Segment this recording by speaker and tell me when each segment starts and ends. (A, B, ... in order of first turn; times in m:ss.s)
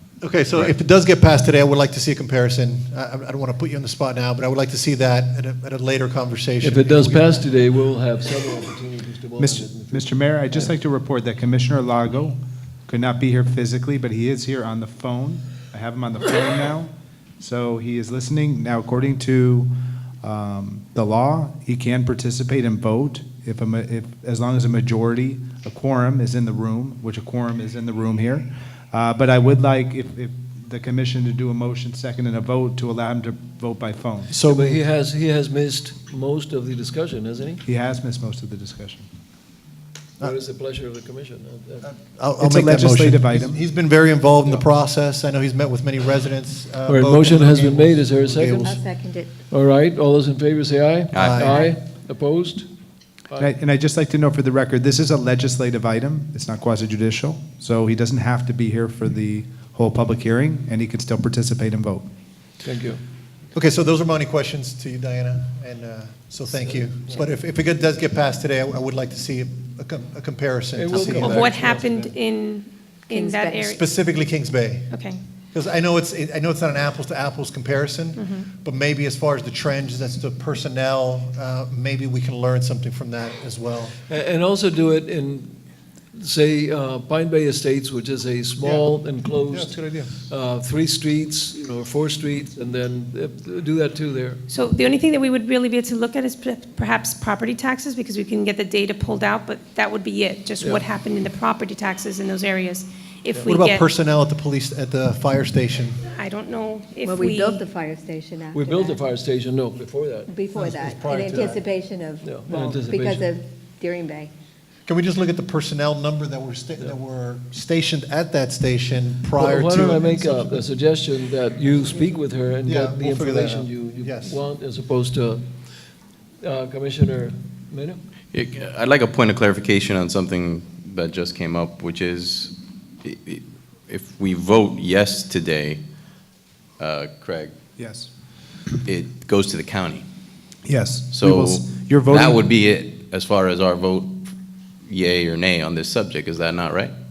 0:00.2-0:07.5 A
0:06.6-0:10.7 B
0:09.4-0:19.7 C
0:20.2-0:34.3 C
0:34.3-0:34.8 A
0:34.4-0:37.6 B
0:37.6-0:39.1 C
0:40.2-0:41.9 B
0:41.8-0:48.8 A
0:42.4-0:43.6 C
0:46.9-0:48.8 B
0:48.5-0:49.4 D
0:49.5-0:52.7 B
0:51.1-0:51.5 E
0:51.2-0:51.6 A
0:51.5-0:51.8 D
0:53.4-1:02.1 C
1:02.6-1:03.0 B
1:03.5-1:11.9 A
1:06.7-1:07.2 B
1:10.7-1:12.0 B
1:11.2-1:13.8 F
1:13.1-1:13.6 D
1:13.7-1:14.9 A
1:14.9-1:15.2 F
1:15.5-1:24.0 A
1:18.2-1:18.4 F
1:24.1-1:25.6 B
1:26.1-1:34.4 B
1:28.6-1:28.9 A
1:29.4-1:30.2 A
1:34.5-1:43.9 F
1:43.4-1:46.0 A
1:46.1-1:47.6 F
1:47.1-1:49.0 D
1:48.5-1:50.3 B
1:50.3-1:54.3 D
1:50.5-1:51.6 A
1:52.2-1:53.3 B
1:54.9-2:00.6 A
1:59.3-2:05.4 B
2:02.6-2:04.4 A
2:06.4-2:08.0 B
2:08.3-2:12.5 E
2:13.0-2:15.8 E
2:16.8-2:17.6 E
2:17.8-2:18.1 C
2:18.8-2:20.0 E
2:20.6-2:22.4 C
2:21.1-2:24.2 E
2:24.9-2:26.9 E